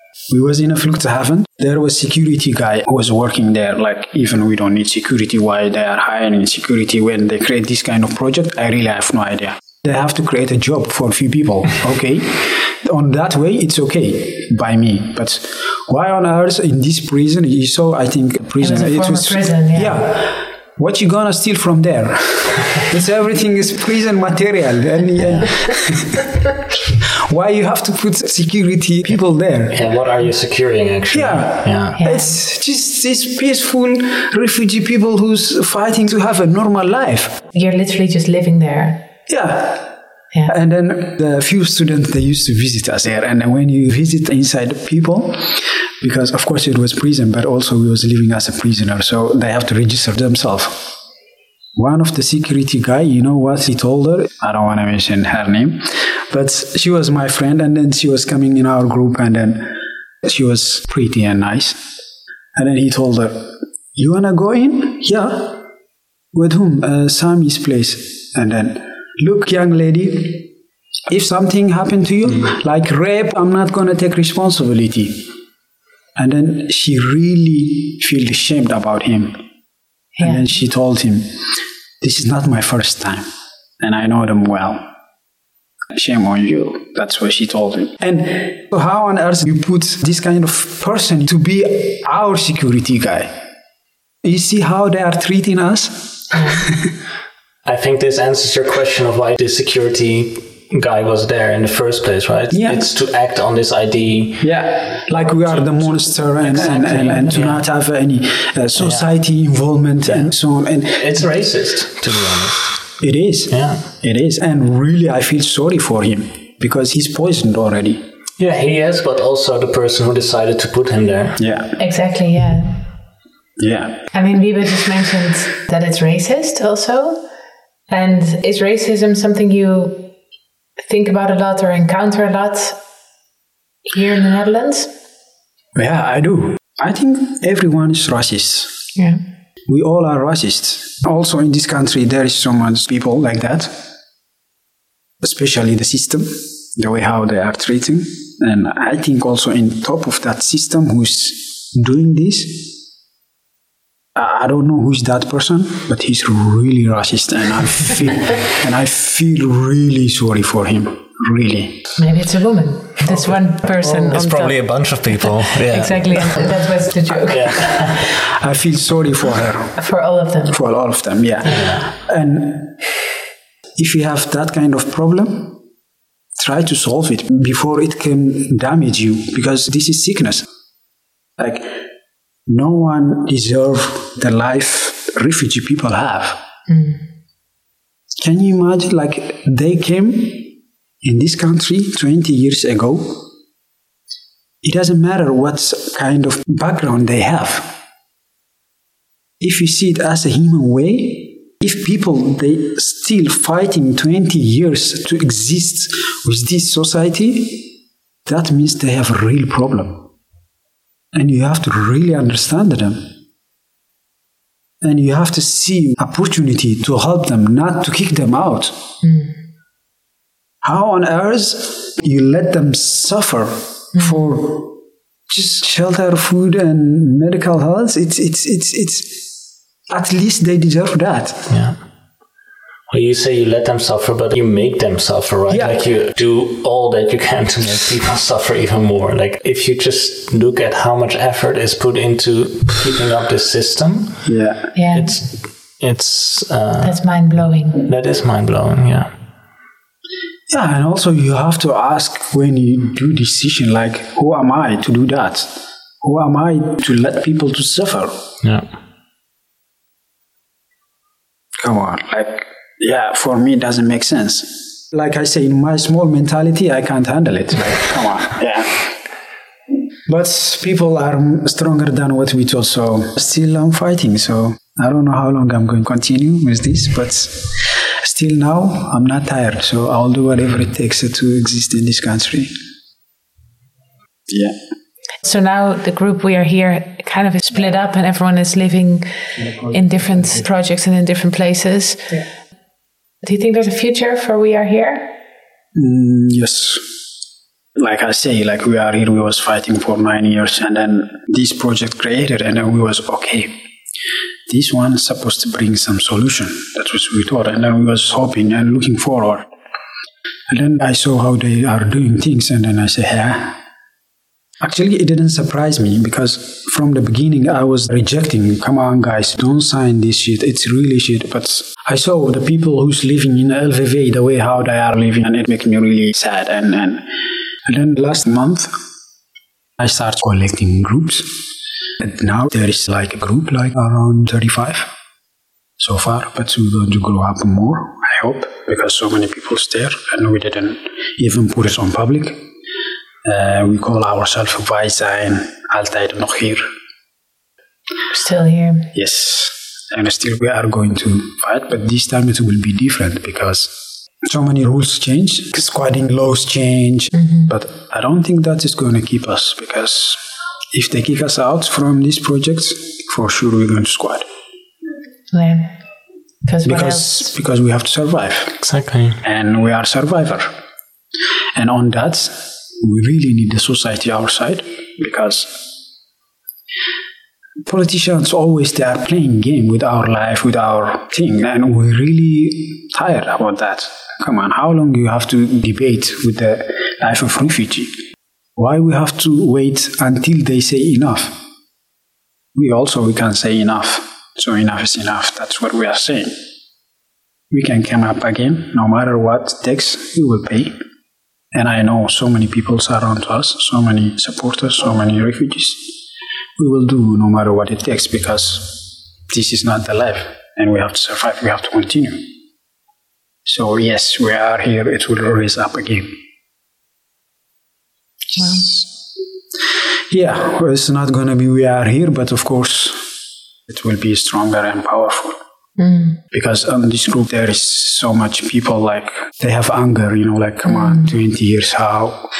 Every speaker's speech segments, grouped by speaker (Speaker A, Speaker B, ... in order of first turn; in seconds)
Speaker A: 0.3-26.3, 27.0-29.8, 31.1-37.4, 39.3-39.9, 40.5-50.9, 51.8-61.8, 62.5-65.6, 66.3-70.5, 71.1-75.3, 76.2-79.4, 80.2-81.5, 82.0-83.3, 83.8-84.9, 85.9-93.3, 94.2-96.9, 102.5-102.8, 104.4-111.3, 113.0-118.0, 121.4-121.7, 123.6-124.1, 135.7-138.7, 139.7-143.8, 145.2-152.7, 154.2-161.9, 168.1-169.8, 170.5-172.8, 173.8-175.6, 176.4-180.4, 181.4-181.8, 182.5-186.4, 188.2-193.2, 194.6-197.7, 199.4-207.7, 208.2-210.1, 211.1-213.1, 214.8-218.8, 220.6-224.8, 225.3-229.2, 229.9-231.5, 235.5-235.8, 244.2-244.7, 250.5-258.1, 261.6-268.8, 270.1-282.5, 284.3-284.6, 289.4-290.4, 295.7-296.9, 297.8-303.6, 304.5-309.5, 310.5-313.6, 314.6-327.0, 327.6-328.7, 329.8-331.3, 332.0-334.9, 335.8-342.4, 343.2-346.6, 348.9-360.2, 360.7-364.2, 366.6-368.6, 369.2-370.5, 371.6-375.6, 377.6-387.9, 388.6-391.4, 392.5-396.4, 397.5-400.8, 401.5-405.9, 406.6-412.2, 413.4-416.1, 418.4-418.9, 420.1-423.1, 423.7-425.4, 426.3-432.3
Speaker B: 18.6-20.1, 31.9-32.4, 37.5-39.1, 80.1-80.5, 96.3-96.6, 121.8-122.8, 124.1-127.2, 127.9-130.1, 130.8-132.8, 133.9-134.9, 138.9-139.2, 162.0-168.0, 169.8-170.6, 186.7-187.0, 219.0-219.3, 223.9-224.2, 244.7-245.1, 246.8-247.8, 285.2-289.1, 289.7-292.2, 293.2-295.2, 348.1-348.9, 357.1-357.5, 365.3-365.8, 366.4-367.2, 418.4-418.7, 425.8-426.2, 430.7-431.1
Speaker C: 29.7-32.0, 97.6-104.5, 105.2-107.6, 108.8-109.0, 110.1-110.3, 111.0-112.9, 113.5-113.8, 118.4-121.4, 163.8-166.4, 167.2-168.1, 171.4-171.8, 231.5-231.8, 232.9-244.3, 244.9-247.0, 247.8-249.1, 368.6-369.2